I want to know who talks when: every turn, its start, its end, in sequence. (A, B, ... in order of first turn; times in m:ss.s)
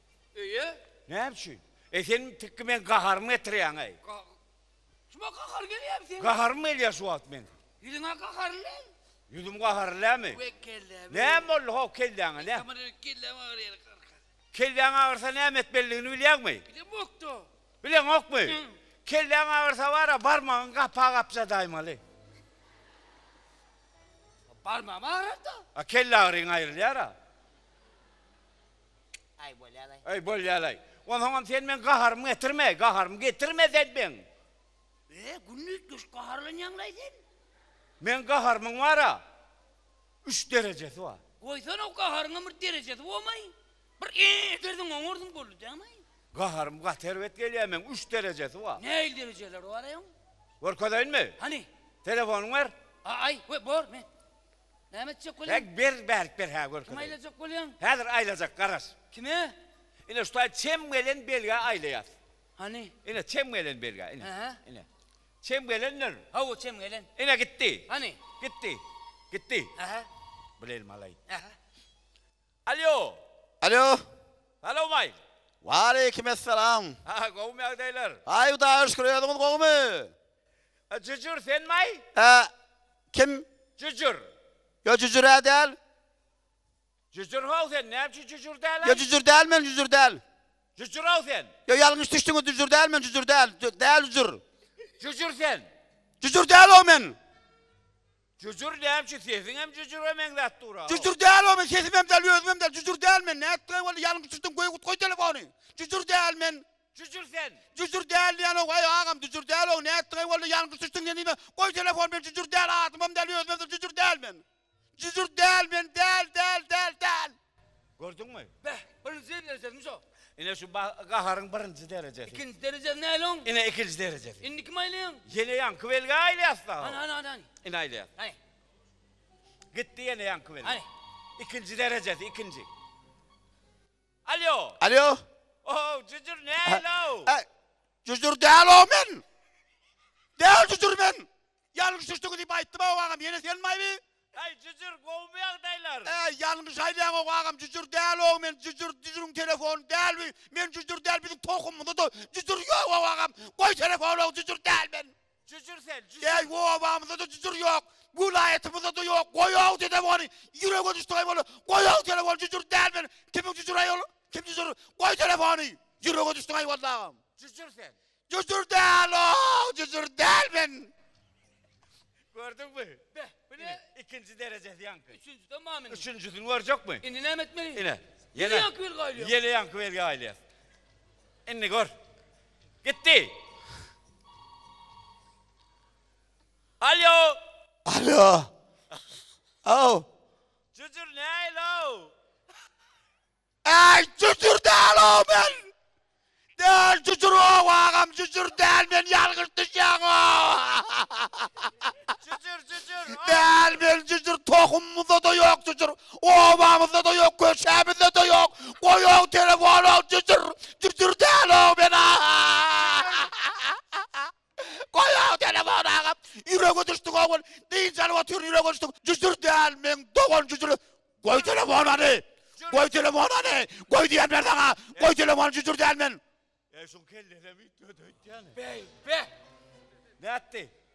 0:00.3-0:00.8 A
0:01.1-0:04.0 B
0:04.0-0:04.4 A
0:05.1-0:06.4 A
0:06.2-0:07.5 B
0:07.8-0:08.9 A
0:09.3-0:10.4 B
0:10.3-0:11.5 A
0:11.1-0:12.7 B
0:12.4-0:14.2 A
0:14.5-0:16.6 B
0:16.7-0:17.5 A
0:17.8-0:22.0 B
0:18.5-0:18.8 A
0:24.6-0:25.6 A
0:25.8-0:27.1 B
0:29.4-0:30.0 A
0:30.0-0:34.2 B
0:35.1-0:37.2 A
0:38.0-0:39.2 B
0:40.2-0:41.2 B
0:41.4-0:46.0 A
0:46.3-0:48.8 B
0:48.8-0:50.1 A
0:50.6-0:51.4 B
0:51.4-0:51.7 A
0:52.0-0:52.7 B
0:53.0-0:54.1 A
0:54.9-0:55.7 A
0:55.5-0:57.1 B
0:56.9-0:57.8 A
0:57.8-0:59.0 B
0:59.1-0:59.6 A
1:00.1-1:02.1 B
1:02.6-1:03.0 A
1:03.0-1:04.9 B
1:04.2-1:04.6 A
1:05.4-1:06.2 B
1:06.3-1:07.1 A
1:07.2-1:07.9 B
1:07.9-1:08.2 A
1:08.4-1:09.7 B
1:09.8-1:10.1 A
1:10.6-1:11.2 B
1:11.3-1:11.5 A
1:12.7-1:13.2 B
1:13.6-1:14.0 C
1:14.6-1:15.2 B
1:15.6-1:17.0 C
1:17.0-1:18.2 B
1:18.3-1:20.1 C
1:20.9-1:22.0 B
1:22.2-1:22.5 C
1:23.1-1:23.5 C
1:23.8-1:24.3 B
1:24.8-1:25.8 C
1:27.1-1:29.1 B
1:28.8-1:30.2 C
1:30.8-1:31.5 B
1:31.7-1:34.4 C
1:35.0-1:35.7 B
1:36.2-1:37.2 C
1:38.4-1:41.1 B
1:40.9-1:46.6 C
1:46.9-1:47.6 B
1:47.7-1:54.4 C
1:55.0-1:57.4 C
1:58.0-1:58.5 B
1:58.6-2:00.0 A
2:00.4-2:02.4 B
2:02.3-2:03.5 A
2:03.4-2:04.4 B
2:04.4-2:05.2 A
2:05.3-2:07.0 B
2:06.8-2:07.5 A
2:07.6-2:08.1 B
2:09.7-2:10.8 B
2:11.4-2:12.7 B
2:14.2-2:14.8 B
2:14.8-2:15.2 C
2:15.6-2:17.3 B
2:16.6-2:17.5 C
2:18.0-2:19.2 C
2:20.4-2:24.0 C
2:24.3-2:26.2 B
2:26.0-2:35.1 C
2:35.5-2:36.5 B
2:36.2-2:47.2 C
2:47.4-2:48.0 B
2:48.3-2:50.9 C
2:52.3-2:55.2 B
2:53.2-2:53.8 A
2:55.1-2:56.1 A
2:55.9-2:57.0 B
2:57.0-2:57.8 A
2:57.8-3:00.4 B
2:58.4-2:59.4 A
3:01.5-3:01.9 B
3:02.8-3:03.4 B
3:06.8-3:07.4 B
3:07.8-3:08.5 C
3:09.6-3:10.1 C
3:10.7-3:12.1 B
3:13.6-3:15.7 C
3:16.6-3:21.9 C
3:22.1-3:23.6 B
3:23.1-3:46.2 C
3:32.8-3:33.3 B
3:42.6-3:42.9 B
3:46.7-3:48.6 B
3:48.6-3:49.3 A
3:50.2-3:50.7 B